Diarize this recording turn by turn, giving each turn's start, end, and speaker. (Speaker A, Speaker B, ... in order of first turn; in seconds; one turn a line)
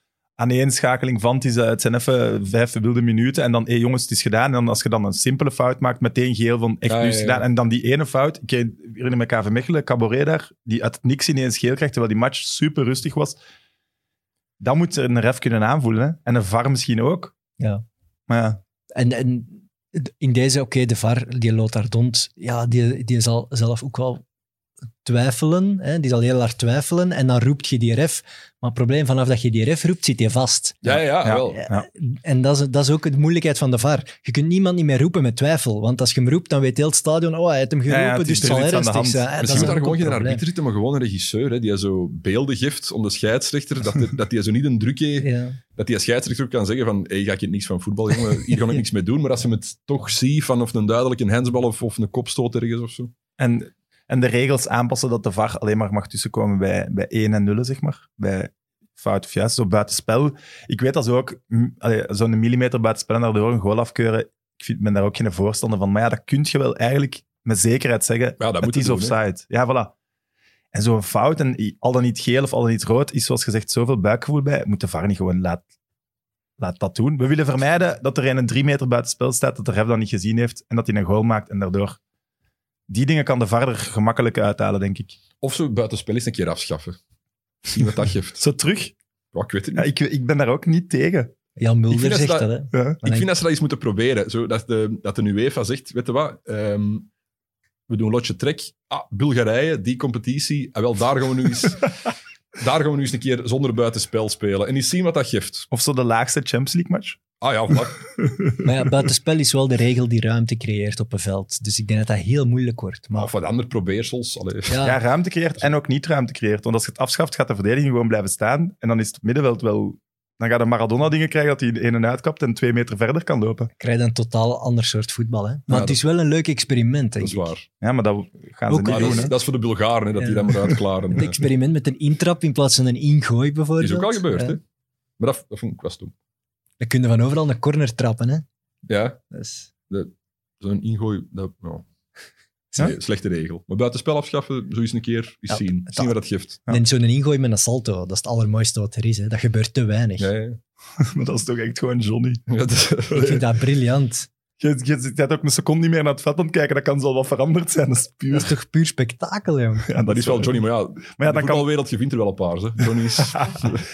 Speaker A: 0.4-13.4
Speaker B: 6.8-7.4
Speaker A: 14.6-17.3
Speaker C: 17.6-17.8
Speaker A: 18.3-18.6
Speaker C: 18.9-24.2
Speaker C: 25.0-30.9
Speaker B: 30.8-31.6
Speaker A: 30.9-31.9
Speaker C: 31.5-40.4
Speaker A: 37.9-39.7
Speaker B: 39.4-53.1
Speaker C: 45.2-45.6
Speaker A: 53.4-69.9
Speaker B: 68.4-69.2
Speaker A: 70.7-75.7
Speaker A: 76.6-82.0
Speaker A: 82.9-85.2
Speaker B: 85.4-87.0
Speaker B: 87.6-88.4
Speaker A: 88.4-88.9
Speaker B: 89.3-89.9
Speaker A: 89.7-91.3
Speaker C: 91.6-93.3
Speaker B: 91.9-92.5
Speaker A: 92.7-93.0
Speaker B: 93.0-97.1
Speaker B: 97.9-101.9
Speaker B: 102.5-105.7
Speaker A: 105.7-107.2
Speaker B: 107.4-108.1
Speaker C: 108.6-113.3
Speaker B: 113.2-114.8
Speaker C: 114.7-115.0
Speaker A: 114.8-123.7
Speaker C: 123.8-127.5
Speaker B: 125.7-126.0
Speaker B: 127.2-127.7
Speaker A: 127.8-129.3
Speaker C: 128.7-129.3
Speaker B: 128.9-131.4
Speaker C: 130.2-130.5
Speaker C: 131.1-134.6
Speaker B: 133.8-134.6
Speaker B: 135.2-136.1
Speaker C: 136.8-138.4
Speaker B: 138.9-139.2
Speaker C: 139.3-139.7
Speaker B: 139.9-141.8
Speaker B: 142.7-146.6
Speaker C: 145.5-146.1
Speaker C: 146.7-150.3
Speaker B: 150.2-150.6
Speaker A: 151.0-152.4
Speaker B: 152.5-153.5
Speaker C: 153.1-154.3
Speaker A: 154.6-158.5
Speaker C: 158.3-159.9
Speaker A: 159.8-160.6
Speaker B: 160.1-163.8
Speaker A: 161.2-161.7
Speaker A: 163.2-163.7